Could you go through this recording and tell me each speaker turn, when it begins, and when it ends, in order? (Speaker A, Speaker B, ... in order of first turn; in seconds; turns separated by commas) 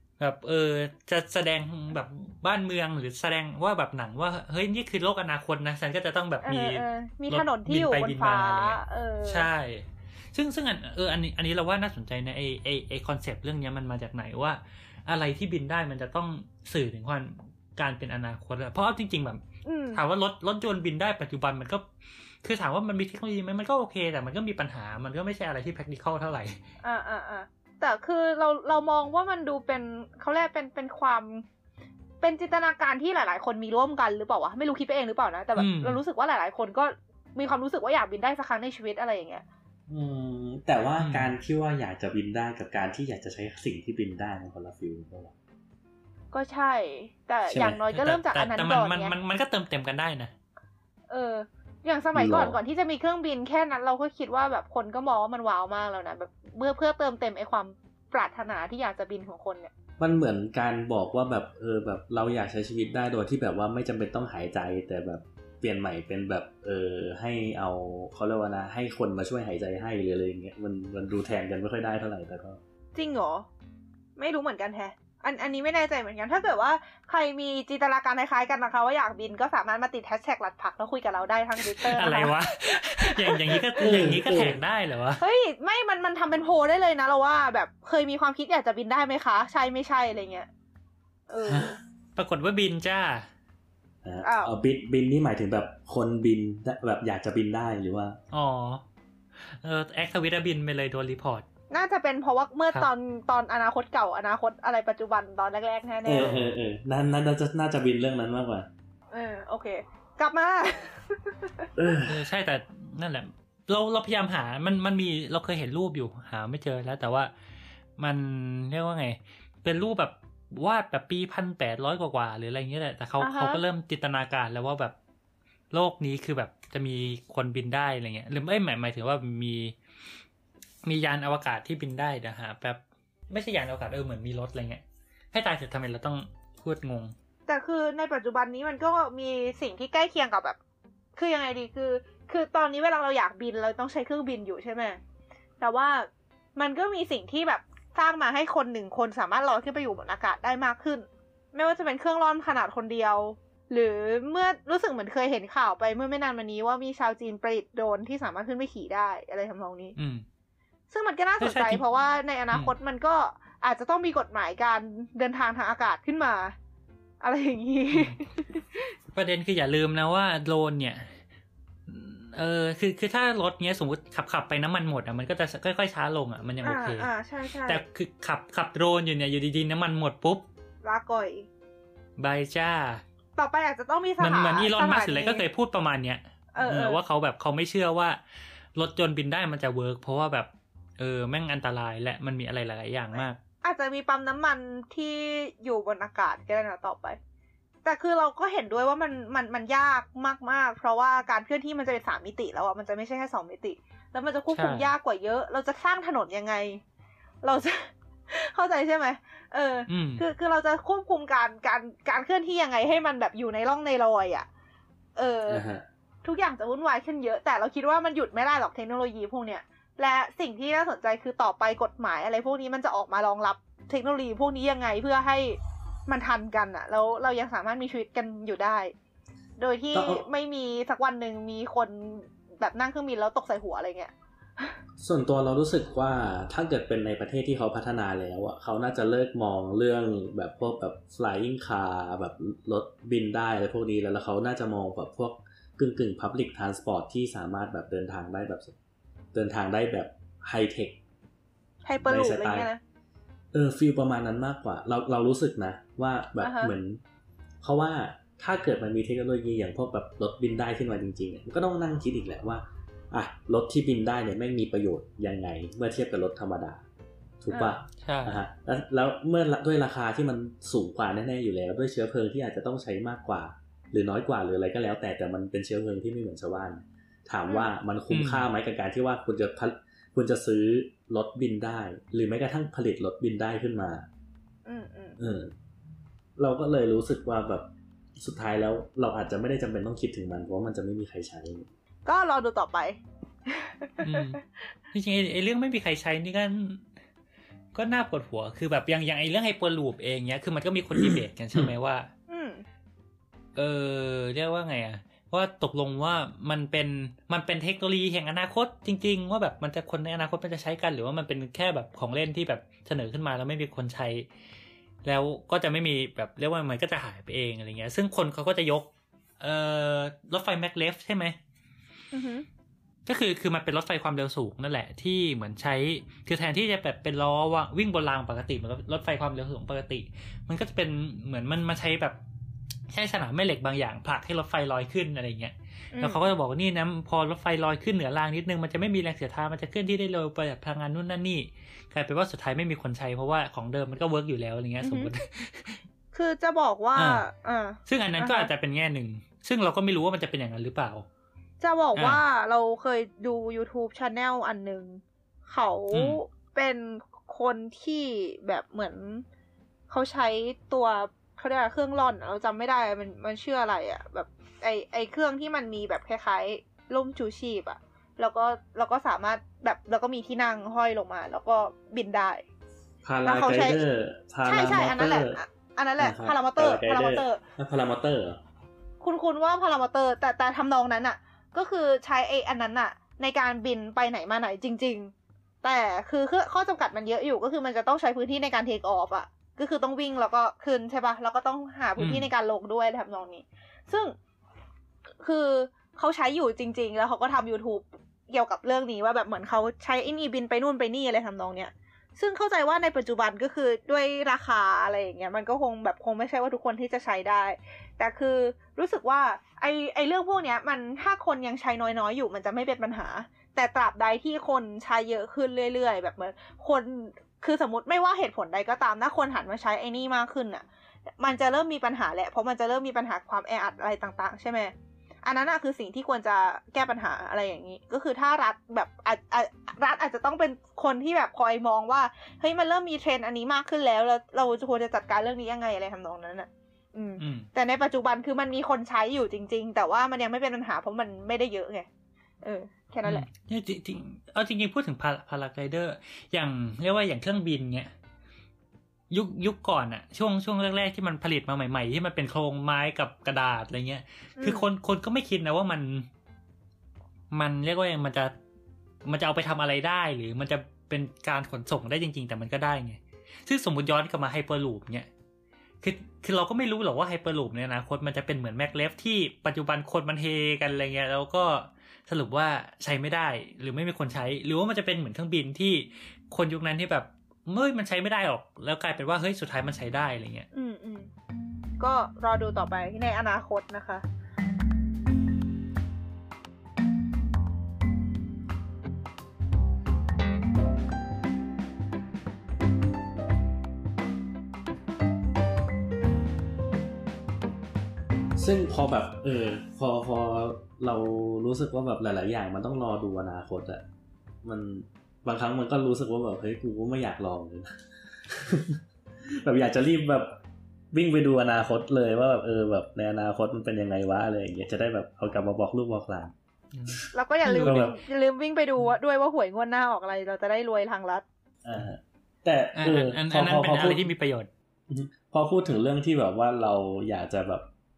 Speaker A: 0.2-19.4, Speaker B: 6.4-9.5, Speaker B: 19.6-20.0, Speaker A: 19.9-21.9, Speaker A: 22.4-26.6, Speaker B: 26.8-31.4, Speaker B: 32.2-39.5, Speaker A: 35.6-36.0, Speaker C: 39.9-45.3, Speaker A: 41.0-41.3, Speaker B: 46.3-49.1, Speaker C: 47.5-47.8, Speaker A: 47.9-50.3, Speaker B: 51.1-59.7, Speaker C: 52.1-52.6, Speaker C: 60.0-72.6, Speaker B: 73.0-73.5, Speaker B: 74.2-84.0, Speaker A: 81.6-85.2, Speaker C: 83.8-84.6, Speaker B: 85.2-90.5, Speaker B: 91.3-91.8, Speaker C: 91.5-91.7, Speaker A: 92.2-93.3, Speaker C: 94.0-98.2, Speaker B: 94.2-94.5, Speaker A: 98.3-98.8, Speaker A: 99.4-101.5, Speaker B: 101.7-106.3, Speaker C: 106.0-108.7, Speaker A: 106.2-106.6, Speaker B: 109.1-111.7, Speaker C: 111.8-112.2, Speaker A: 112.1-117.3, Speaker A: 118.0-124.9, Speaker B: 123.2-123.6, Speaker A: 125.7-129.8, Speaker A: 130.8-134.8, Speaker A: 135.3-137.2, Speaker B: 137.5-140.6, Speaker B: 141.2-145.0, Speaker B: 145.6-159.9, Speaker A: 160.0-160.2, Speaker B: 160.9-166.5, Speaker A: 161.4-161.8, Speaker B: 167.2-168.9, Speaker A: 167.9-168.2, Speaker A: 169.1-171.2, Speaker A: 171.9-177.1, Speaker B: 176.6-177.8, Speaker A: 177.7-180.5, Speaker B: 180.8-181.5, Speaker A: 182.2-183.0, Speaker B: 183.4-185.4, Speaker A: 184.2-188.2, Speaker B: 186.5-187.0, Speaker A: 188.8-193.4, Speaker B: 193.1-197.2, Speaker B: 197.8-206.8, Speaker A: 204.5-204.9, Speaker B: 207.4-214.5, Speaker A: 209.9-210.2, Speaker B: 215.2-215.6, Speaker C: 215.5-215.8, Speaker B: 216.2-228.9, Speaker B: 229.6-234.7, Speaker C: 229.9-230.2, Speaker C: 235.0-248.8, Speaker C: 249.3-251.0, Speaker B: 251.8-252.8, Speaker C: 252.1-252.7, Speaker C: 253.5-257.0, Speaker B: 256.4-256.7, Speaker C: 257.6-266.8, Speaker C: 267.4-284.1, Speaker A: 268.0-268.4, Speaker A: 278.1-278.5, Speaker B: 284.7-285.2, Speaker C: 285.2-285.5, Speaker C: 286.4-291.7, Speaker B: 292.1-294.2, Speaker A: 294.0-296.9, Speaker A: 297.8-302.1, Speaker C: 300.9-301.7, Speaker B: 302.3-302.6, Speaker A: 303.6-314.3, Speaker A: 315.1-318.9, Speaker A: 319.4-321.4, Speaker B: 322.1-322.5, Speaker A: 323.1-332.2, Speaker A: 332.9-345.8, Speaker B: 335.9-336.2, Speaker B: 344.8-345.1, Speaker B: 346.1-348.5, Speaker A: 347.0-347.2, Speaker A: 347.9-351.1, Speaker B: 351.6-359.2, Speaker A: 352.0-352.2, Speaker A: 355.9-356.2, Speaker B: 359.9-372.4, Speaker C: 373.0-375.4, Speaker B: 373.2-373.8, Speaker B: 374.4-377.4, Speaker C: 376.0-378.4, Speaker B: 379.0-394.1, Speaker A: 392.0-392.3, Speaker B: 395.2-420.6, Speaker B: 421.2-424.7, Speaker B: 425.2-441.9, Speaker A: 437.2-437.5, Speaker B: 442.4-443.3, Speaker A: 443.0-447.9, Speaker A: 449.1-456.1, Speaker B: 454.4-454.7, Speaker A: 457.3-458.3, Speaker A: 459.1-465.1, Speaker A: 465.8-480.5, Speaker B: 480.5-481.1, Speaker B: 481.8-484.0, Speaker C: 498.4-503.8, Speaker C: 504.4-508.8, Speaker C: 509.3-510.4, Speaker C: 510.9-516.3, Speaker A: 516.7-518.0, Speaker B: 517.1-521.2, Speaker C: 517.6-518.0, Speaker C: 521.6-524.1, Speaker A: 522.8-524.5, Speaker C: 524.9-527.7